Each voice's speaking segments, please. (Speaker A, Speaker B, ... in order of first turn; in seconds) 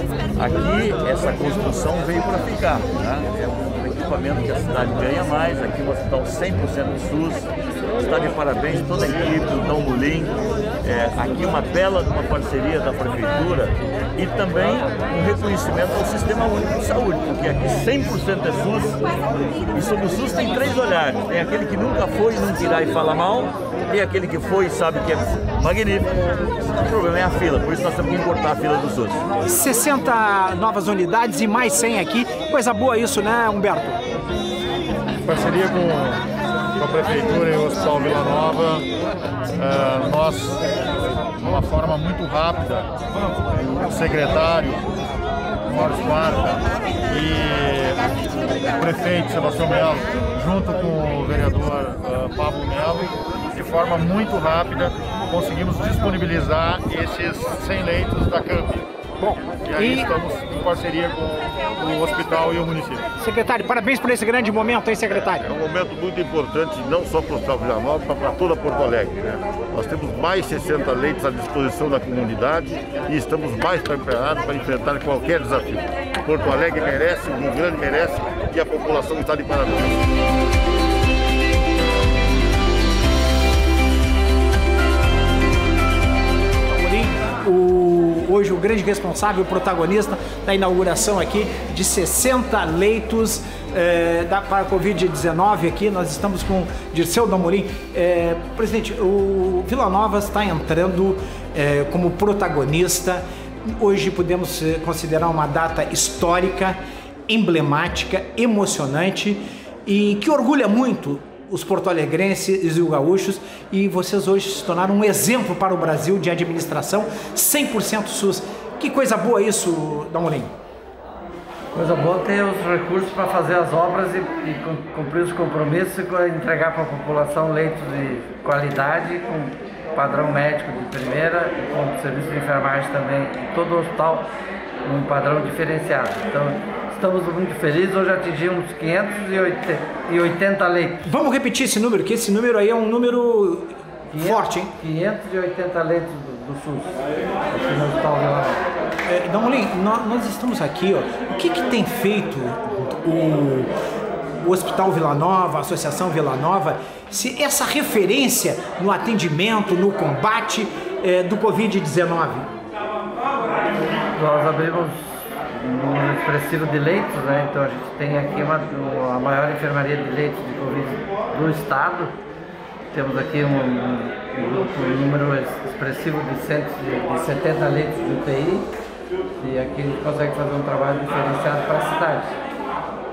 Speaker A: 0.4-7.5, 8.0-19.0, 19.7-29.2
Speaker B: 29.5-34.0, 59.2-60.1, 63.2-65.4, 86.6-120.5, 141.0-144.7, 149.1-153.7, 154.4-162.5
Speaker C: 35.2-36.2, 36.8-38.8, 39.5-40.6, 41.4-44.8, 45.6-48.0, 48.6-58.8, 59.7-63.0
Speaker D: 65.2-80.0
Speaker E: 121.7-134.3, 134.8-141.0, 144.1-148.7, 164.1-172.2, 172.9-178.7, 179.4-182.3